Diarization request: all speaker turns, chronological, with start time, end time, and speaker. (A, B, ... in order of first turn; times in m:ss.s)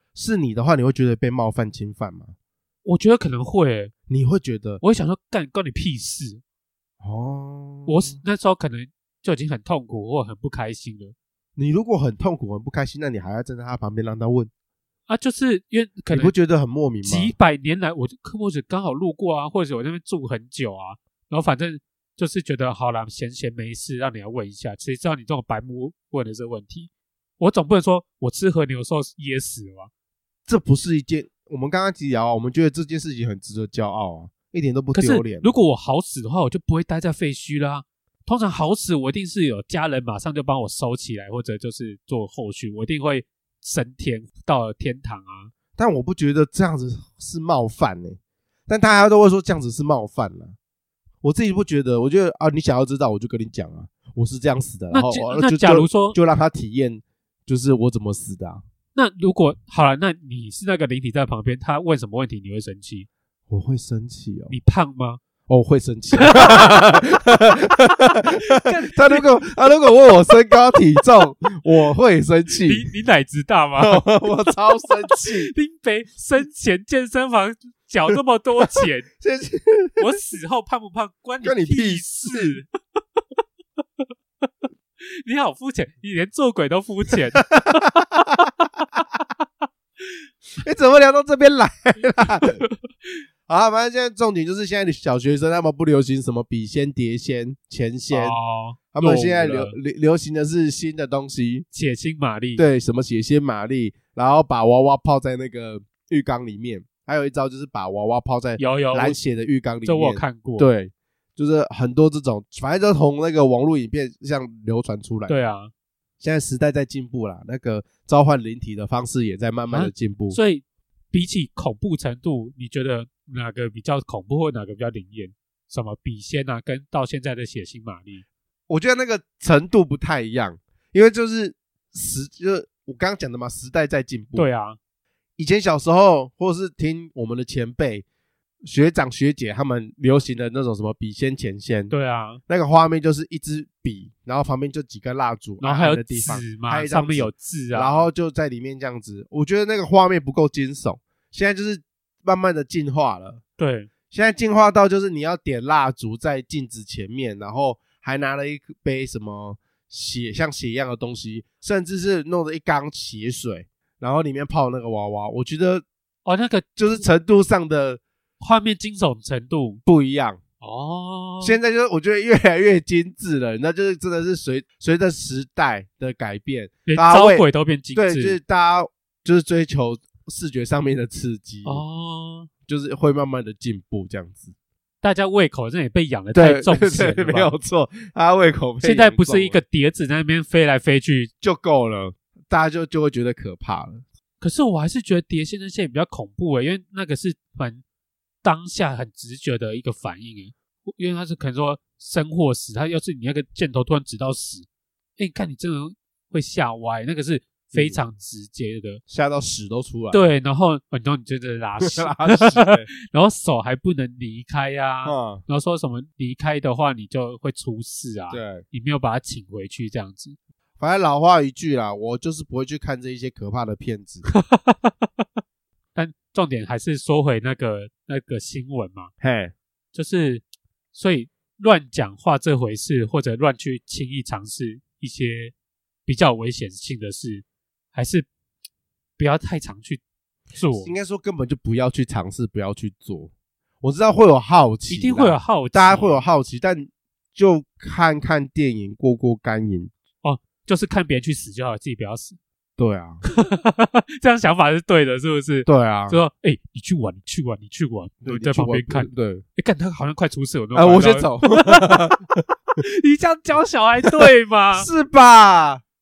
0:00.1-0:02.3 A
0:02.8-0:03.9 B
0:04.1-0:04.8 A
0:04.8-0:06.4 B
0:07.0-0:08.2 A
0:07.8-0:11.1 B
0:11.6-0:14.5 A
0:15.1-0:16.3 B
0:16.1-0:17.3 A
0:17.0-0:29.9 B
0:30.5-0:35.5 A
0:34.9-0:45.5 B
0:45.8-0:50.6 A
0:51.2-0:58.6 A
0:54.9-0:56.2 B
0:58.9-1:03.1 B
1:03.5-1:04.5 A
1:04.5-1:05.2 B
1:05.5-1:12.9 A
1:06.2-1:07.0 B
1:07.8-1:09.2 B
1:12.6-1:19.1 B
1:13.8-1:15.5 A
1:18.7-1:20.0 A
1:20.0-1:22.7 B
1:21.4-1:22.6 A
1:25.2-1:29.2 B
1:27.5-1:28.3 A
1:30.6-1:32.6 A
1:33.5-1:38.4 A
1:38.1-1:39.7 B
1:38.9-1:41.6 A
1:41.7-1:42.6 B
1:42.6-1:55.3 A
1:48.6-1:49.2 B
1:49.8-1:50.7 B
1:55.3-1:55.7 B
1:56.2-2:00.4 A
1:59.7-2:08.2 B
2:08.7-2:14.5 A
2:14.4-2:14.8 B
2:15.4-2:18.0 A
2:18.6-2:21.9 A
2:21.9-2:22.4 B
2:22.5-2:33.4 A
2:25.6-2:28.1 B
2:33.6-2:33.9 B
2:34.1-2:45.8 A
2:46.2-2:46.7 B
2:46.8-2:48.0 A
2:48.4-2:49.8 B
2:49.8-2:50.4 A
2:50.6-2:51.6 B
2:51.4-3:01.8 A
2:56.8-2:58.4 B
3:01.6-3:02.5 B
3:02.6-3:04.5 A
3:05.0-3:07.5 B
3:06.3-3:09.6 A
3:08.8-3:11.3 B
3:11.4-3:14.0 A
3:14.4-3:17.8 B
3:18.4-3:24.6 B
3:25.2-3:29.0 B
3:27.7-3:28.0 A
3:29.1-3:30.2 A
3:30.1-3:40.4 B
3:31.8-3:32.9 A
3:35.0-3:35.4 A
3:38.3-3:38.6 A
3:40.8-3:44.3 A
3:44.3-3:45.2 B
3:45.9-3:49.1 B
3:49.2-3:49.5 A
3:49.9-3:55.5 B
3:56.0-3:58.3 B
3:59.2-4:00.0 B
4:00.5-4:00.9 B
4:00.8-4:03.3 A
4:03.8-4:09.9 A
4:04.9-4:06.2 B
4:10.2-4:12.4 B
4:12.8-4:13.2 A
4:13.2-4:22.2 B
4:15.6-4:16.2 A
4:18.2-4:19.4 A
4:20.7-4:22.4 A
4:22.8-4:24.9 B
4:24.8-4:25.8 A